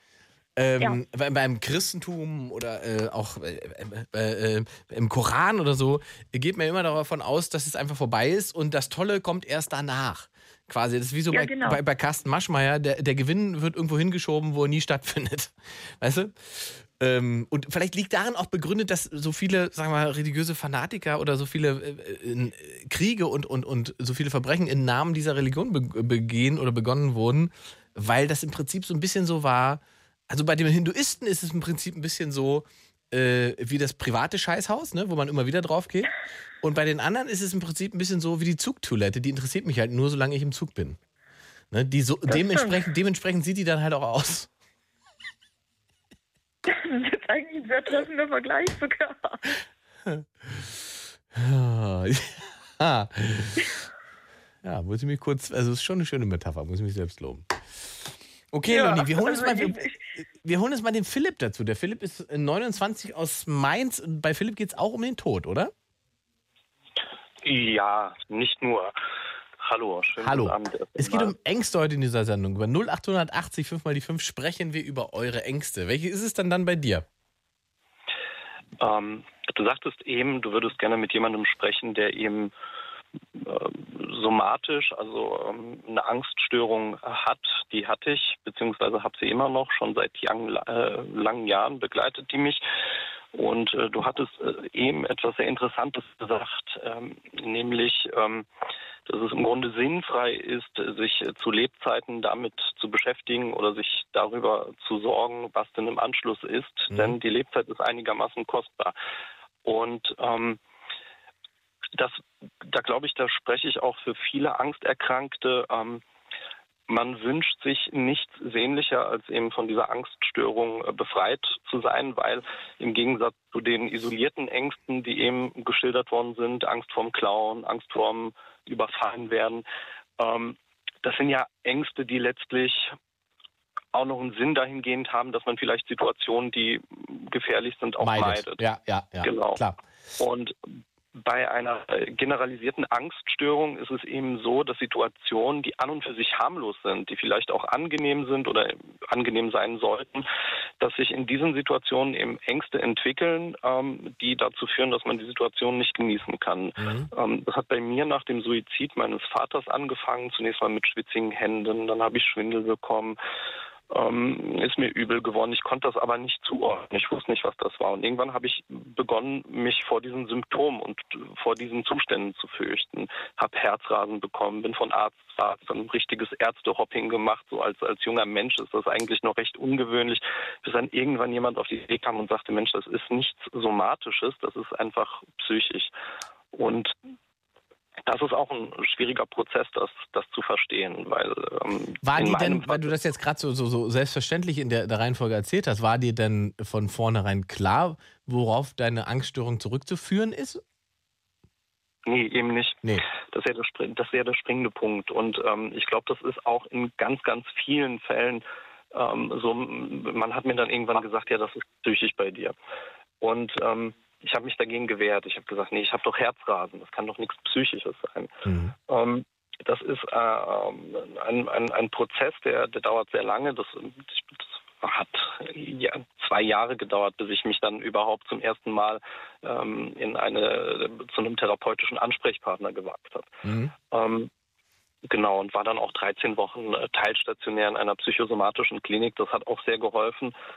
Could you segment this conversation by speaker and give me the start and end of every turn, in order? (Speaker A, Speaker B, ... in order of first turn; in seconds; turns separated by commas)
Speaker A: 0.6-36.1, Speaker B: 11.3-11.8, Speaker A: 36.6-41.0, Speaker A: 41.7-44.5, Speaker B: 42.3-42.9, Speaker B: 46.7-49.4, Speaker A: 50.0-50.8, Speaker A: 51.3-53.7, Speaker A: 54.6-57.9, Speaker A: 58.5-65.7, Speaker B: 58.7-60.0, Speaker C: 67.4-68.9, Speaker C: 69.6-71.3, Speaker A: 70.2-77.0, Speaker C: 78.8-82.5, Speaker C: 83.3-92.6, Speaker C: 93.3-98.5, Speaker C: 99.1-108.9, Speaker A: 106.9-107.2, Speaker C: 109.6-110.6, Speaker C: 111.9-116.0, Speaker C: 116.9-129.6, Speaker C: 130.2-132.9, Speaker C: 133.9-138.6, Speaker A: 138.0-139.8, Speaker C: 139.2-139.6, Speaker C: 140.2-140.6, Speaker C: 141.1-150.2, Speaker C: 150.8-163.2, Speaker A: 156.8-157.1, Speaker C: 163.9-185.9, Speaker C: 186.5-186.9, Speaker C: 188.1-192.9, Speaker A: 192.0-200.6, Speaker C: 202.1-212.5, Speaker C: 213.2-218.3, Speaker A: 218.4-218.7, Speaker C: 218.9-233.3, Speaker A: 233.4-233.7, Speaker C: 233.9-234.3, Speaker C: 235.0-240.3